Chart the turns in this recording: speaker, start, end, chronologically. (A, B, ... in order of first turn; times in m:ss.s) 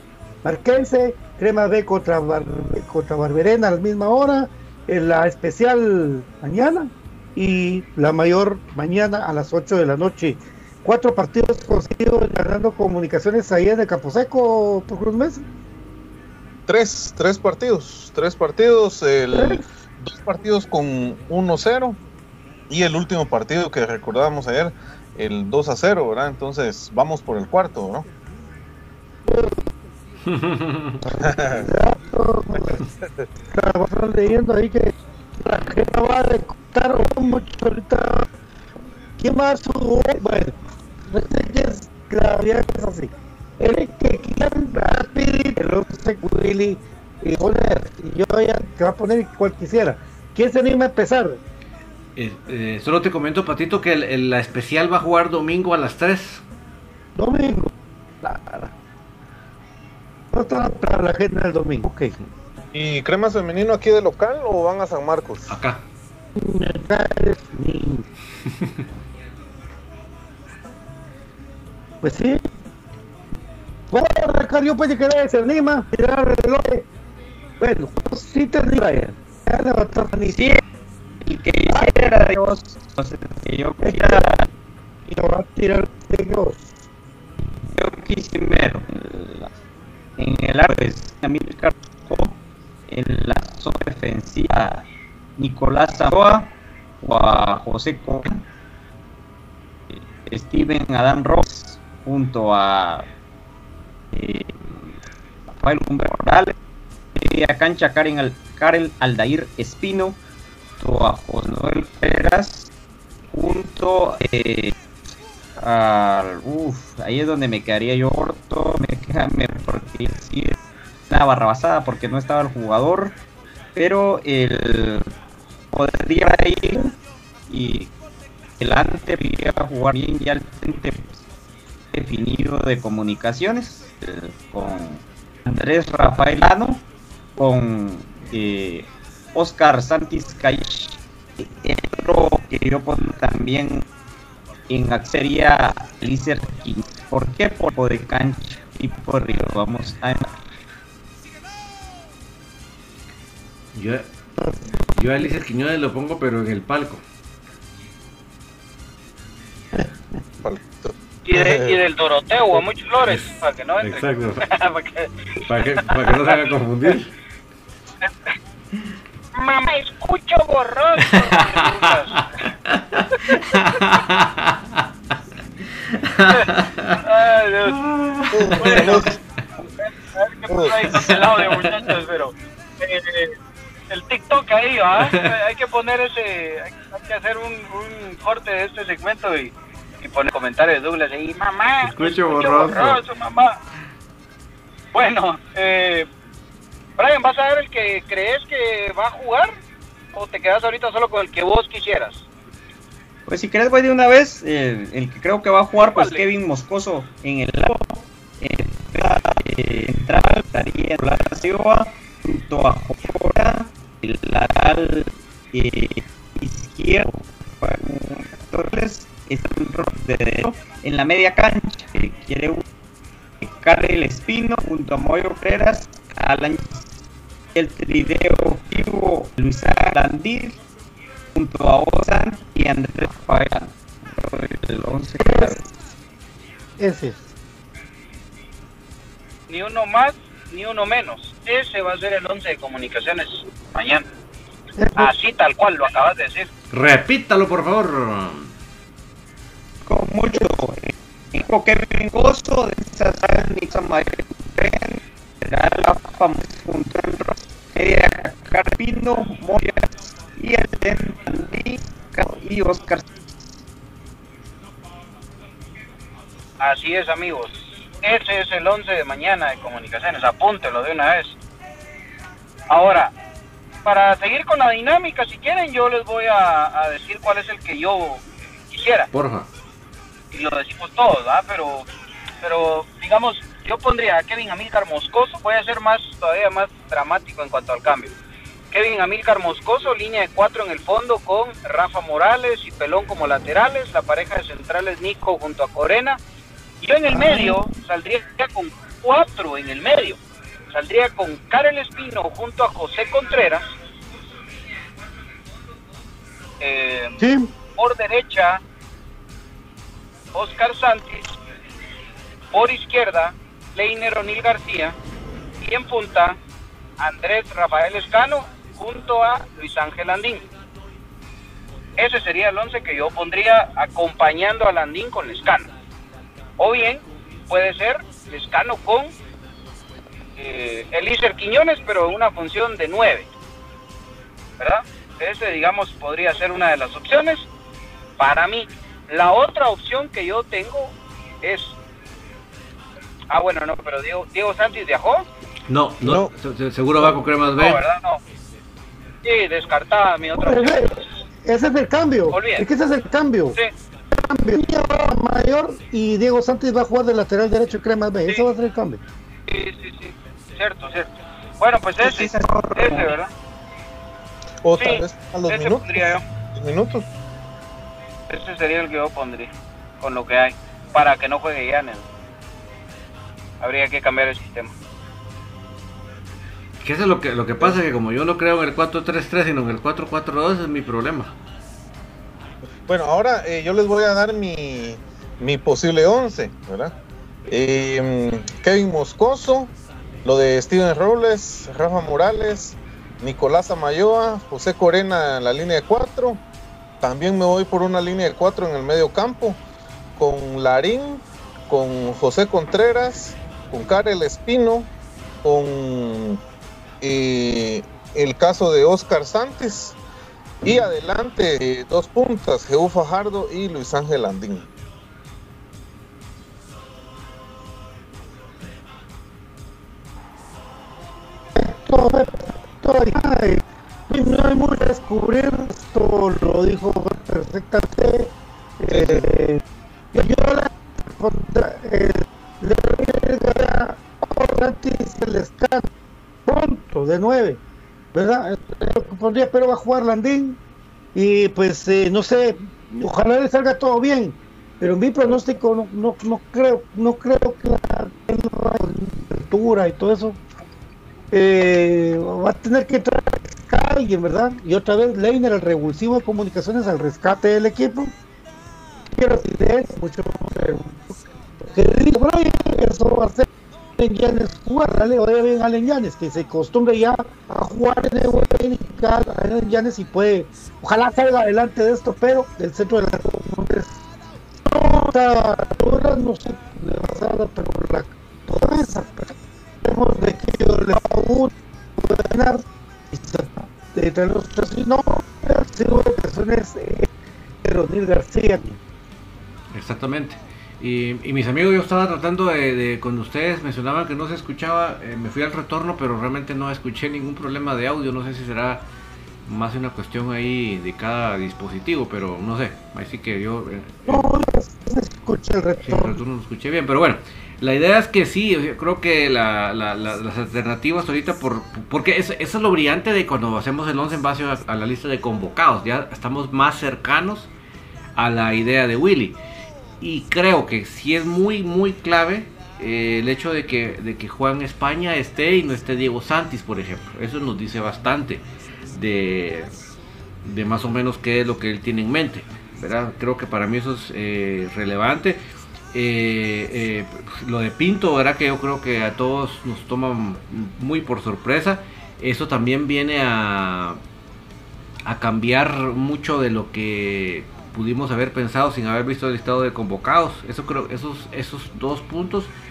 0:00.4-0:15.4 A
0:16.7-0:22.0 B
0:19.3-0:19.6 A
0:22.7-0:28.0 B
0:29.2-0:29.7 A
0:30.3-0:31.0 C
0:31.0-0:32.8 A
0:33.4-0:38.3 A
0:39.2-0:51.4 A
0:52.2-0:56.4 C
0:57.2-0:58.7 A
1:00.3-1:02.1 A
1:02.7-1:05.6 B
1:05.5-1:05.8 C
1:06.4-1:08.0 A
1:12.0-1:12.4 A
1:13.9-1:16.8 A
1:17.6-1:20.4 A
1:20.3-1:20.6 D
1:21.2-1:24.5 D
1:21.7-1:22.2 A
1:23.8-1:24.2 A
1:25.1-1:26.7 A
1:27.7-1:29.5 D
1:30.2-1:34.8 D
1:35.4-1:38.4 D
1:39.9-1:43.1 D
1:44.1-1:44.9 D
1:45.6-1:46.6 D
1:47.1-1:50.2 D
1:50.8-1:52.7 D
1:53.3-1:54.7 D
1:55.6-2:03.2 D
2:03.7-2:05.0 D
2:05.7-2:06.9 D
2:07.5-2:07.9 D
2:08.6-2:11.2 D
2:11.9-2:16.8 D
2:17.4-2:23.9 D
2:24.7-2:30.3 D
2:33.7-2:34.1 C
2:34.4-2:34.6 A
2:35.0-2:37.0 C
2:40.4-2:41.8 B
2:41.2-2:47.0 E
2:43.0-2:44.4 C
2:45.4-2:47.1 C
2:49.3-2:52.2 E
2:51.0-2:54.6 C
2:53.3-2:53.8 E
2:55.9-2:57.0 C
2:57.0-2:57.8 E
2:57.6-2:59.2 C
2:58.3-2:59.2 B
2:58.6-2:59.1 E
2:59.8-3:03.3 E
3:00.5-3:01.0 B
3:00.8-3:02.0 C
3:03.9-3:13.5 E
3:05.0-3:05.4 C
3:11.8-3:13.0 C
3:14.9-3:16.1 E
3:17.0-3:19.5 E
3:20.1-3:22.2 E
3:23.3-3:42.6 D
3:25.8-3:26.2 E
3:43.4-3:46.9 D
3:47.5-3:50.6 D
3:51.3-3:55.6 D
3:55.2-3:55.7 A
3:56.8-3:57.3 A
3:59.5-4:04.0 E
4:04.8-4:05.1 A
4:05.0-4:06.5 E
4:06.7-4:08.5 C
4:09.8-4:23.1 D
4:26.6-4:31.4 E
4:32.7-4:33.1 E
4:33.8-4:39.1 E
4:39.1-4:39.5 C
4:40.3-4:41.9 E
4:42.4-4:48.2 E
4:48.7-4:56.2 E
4:56.8-5:03.6 E
4:57.1-4:57.7 A
5:06.6-5:07.2 E
5:07.2-5:07.5 A
5:07.8-5:08.6 E
5:10.3-5:11.4 E
5:12.5-5:15.0 E
5:15.6-5:16.4 E
5:17.0-5:20.4 E
5:22.0-5:25.7 E
5:26.6-5:29.1 E
5:30.4-5:33.3 E
5:34.6-5:37.5 E
5:38.2-5:41.8 E
5:43.3-5:45.2 E
5:45.7-5:47.8 C
5:46.0-5:46.3 B
5:47.6-5:48.2 E
5:49.2-5:50.8 E
5:50.4-5:53.6 A
5:52.3-5:52.7 E
5:54.1-5:59.0 A
5:59.5-6:03.3 E
6:02.0-6:03.2 D
6:04.6-6:07.0 B
6:04.8-6:06.2 E
6:08.3-6:12.0 E
6:13.6-6:14.7 E
6:16.8-6:21.3 C
6:22.9-6:26.9 B
6:27.5-6:29.7 B
6:30.2-6:36.4 B
6:37.0-6:39.6 B
6:40.2-6:44.9 B
6:45.4-6:46.4 B
6:47.0-6:50.0 B
6:50.6-6:54.7 B
7:01.5-7:09.6 A
7:08.9-7:09.3 B
7:10.1-7:15.9 A
7:16.4-7:17.6 A
7:18.1-7:20.6 A
7:21.1-7:30.4 A
7:31.3-7:38.1 A
7:39.1-7:53.9 A
7:54.6-8:07.1 A
8:07.6-8:08.8 A
8:09.7-8:18.8 C
8:19.4-8:24.3 C
8:24.0-8:26.2 A
8:25.8-8:37.5 C
8:38.2-8:39.4 C
8:40.0-8:49.7 C
8:50.4-8:55.4 C
8:55.9-9:04.0 C
9:05.1-9:12.5 C